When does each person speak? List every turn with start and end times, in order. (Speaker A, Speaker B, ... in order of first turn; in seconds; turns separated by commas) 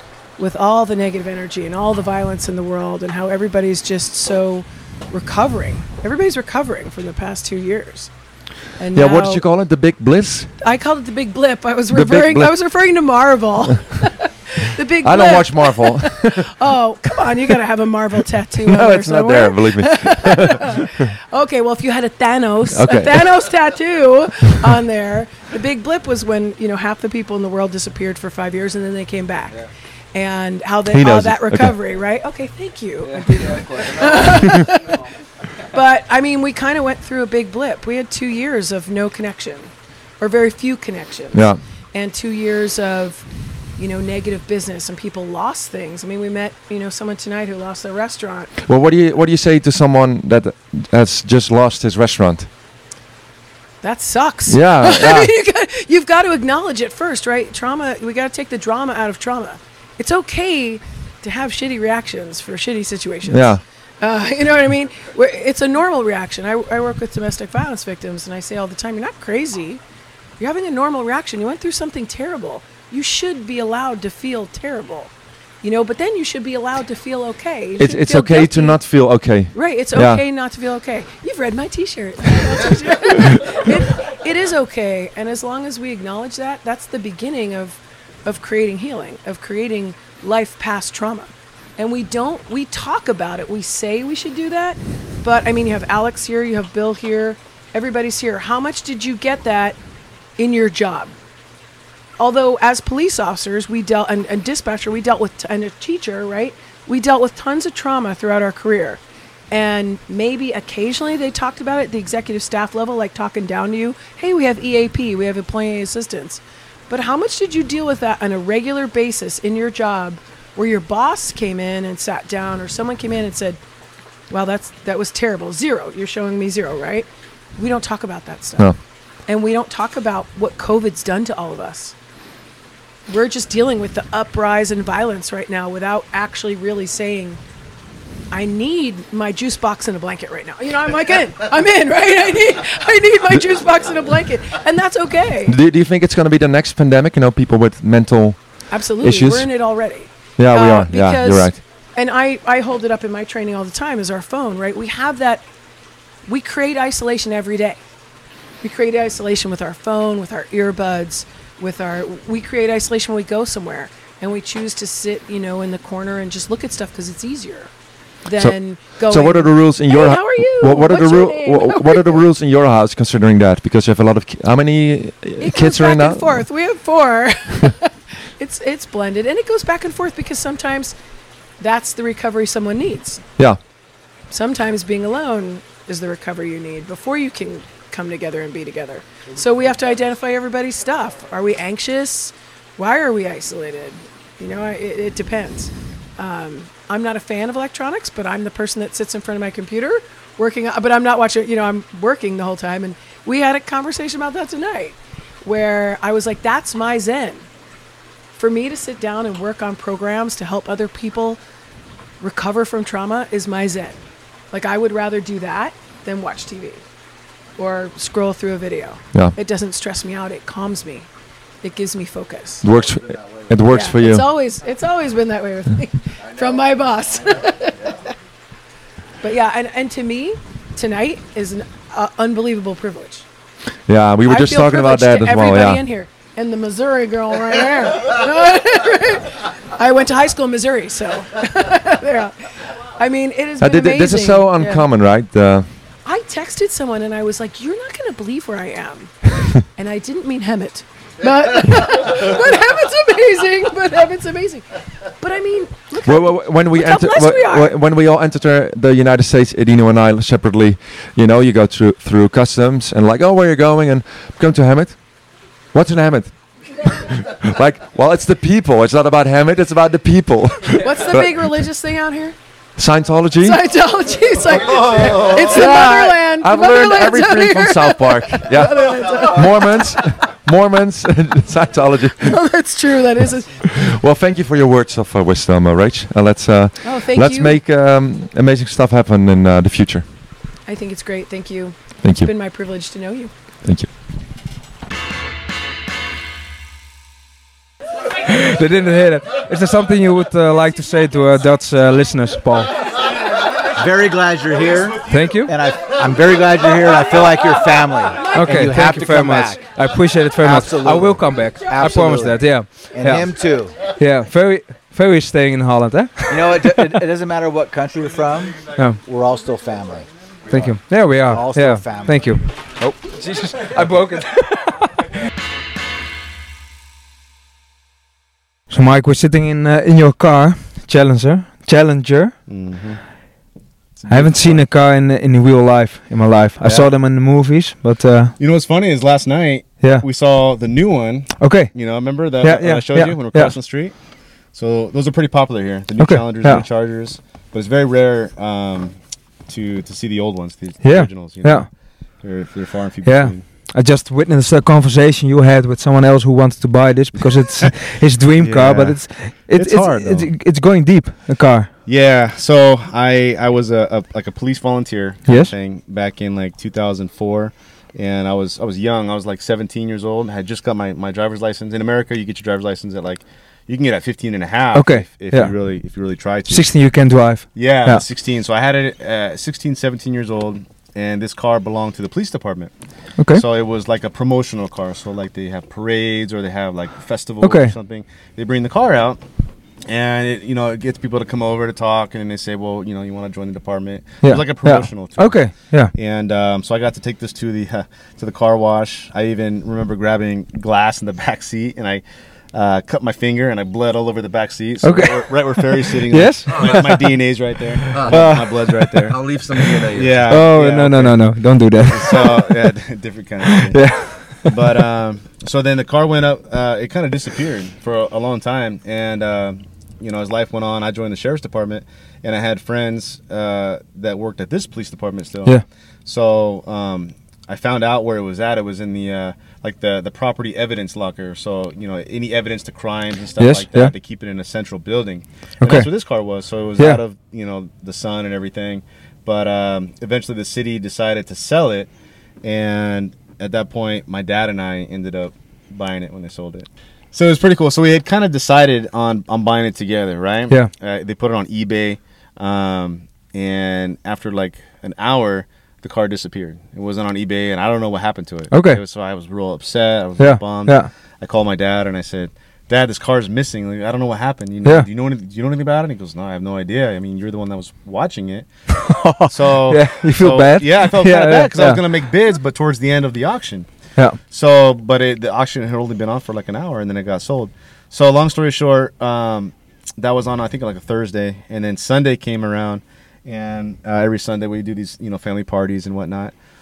Speaker A: 0.4-8.1, Speaker A: 8.7-9.4, Speaker B: 8.9-10.6, Speaker A: 10.6-48.5, Speaker B: 11.9-12.5, Speaker B: 15.0-16.5, Speaker B: 18.7-21.1, Speaker B: 22.7-23.3, Speaker B: 30.8-31.8, Speaker C: 33.0-34.4, Speaker B: 41.3-41.6, Speaker B: 48.6-52.5, Speaker A: 53.8-69.8, Speaker B: 54.5-55.3, Speaker B: 63.2-63.6, Speaker A: 70.4-99.8, Speaker B: 77.8-80.2, Speaker B: 83.1-83.7, Speaker A: 100.4-101.1, Speaker A: 102.2-109.0, Speaker A: 109.5-123.6, Speaker A: 124.3-131.9, Speaker A: 133.1-137.4, Speaker A: 138.3-145.6, Speaker B: 145.4-149.5, Speaker A: 148.7-155.4, Speaker B: 150.4-151.6, Speaker A: 156.3-157.8, Speaker A: 158.6-167.7, Speaker A: 168.2-172.2, Speaker B: 168.3-176.5, Speaker A: 175.4-180.9, Speaker A: 181.6-183.2, Speaker A: 184.3-207.5, Speaker A: 208.4-211.4, Speaker A: 212.2-214.0, Speaker A: 214.5-216.8, Speaker A: 217.6-221.1, Speaker A: 221.6-222.7, Speaker B: 222.6-224.2, Speaker A: 223.7-228.1, Speaker A: 229.2-233.2, Speaker B: 233.8-235.8, Speaker A: 234.2-244.9, Speaker B: 243.6-245.7, Speaker A: 246.0-257.7, Speaker B: 256.0-271.6, Speaker A: 270.8-272.4, Speaker B: 272.8-273.6, Speaker A: 273.4-280.1, Speaker B: 274.5-282.4, Speaker A: 282.2-283.8, Speaker B: 283.7-290.1, Speaker A: 286.8-287.6, Speaker A: 290.6-293.3, Speaker B: 292.0-292.3, Speaker B: 293.6-293.9, Speaker C: 298.2-302.7, Speaker D: 303.7-309.7, Speaker C: 305.1-305.5, Speaker C: 308.3-317.0, Speaker D: 310.4-313.8, Speaker D: 316.3-322.3, Speaker C: 318.7-319.0, Speaker C: 320.5-324.9, Speaker C: 328.7-332.4, Speaker E: 332.5-333.2, Speaker E: 334.0-334.7, Speaker C: 334.1-338.3, Speaker E: 336.6-336.9, Speaker E: 338.4-353.4, Speaker C: 341.4-343.6, Speaker C: 346.0-346.6, Speaker C: 350.8-351.7, Speaker C: 353.0-361.7, Speaker E: 357.2-357.9, Speaker E: 358.4-360.3, Speaker E: 361.9-376.9, Speaker C: 365.2-365.5, Speaker C: 374.7-375.5, Speaker C: 376.5-378.0, Speaker E: 377.5-389.3, Speaker C: 383.2-383.4, Speaker C: 387.4-387.7, Speaker E: 389.9-409.4, Speaker C: 394.2-395.9, Speaker C: 404.8-407.1, Speaker B: 406.5-406.8, Speaker C: 407.8-408.7, Speaker B: 407.9-408.5, Speaker B: 409.0-410.3, Speaker E: 409.9-441.9, Speaker C: 410.3-412.8, Speaker C: 413.5-414.5, Speaker C: 433.4-433.9, Speaker C: 435.6-435.9, Speaker E: 442.4-486.4, Speaker C: 458.5-458.8, Speaker C: 460.2-460.9, Speaker C: 468.9-471.8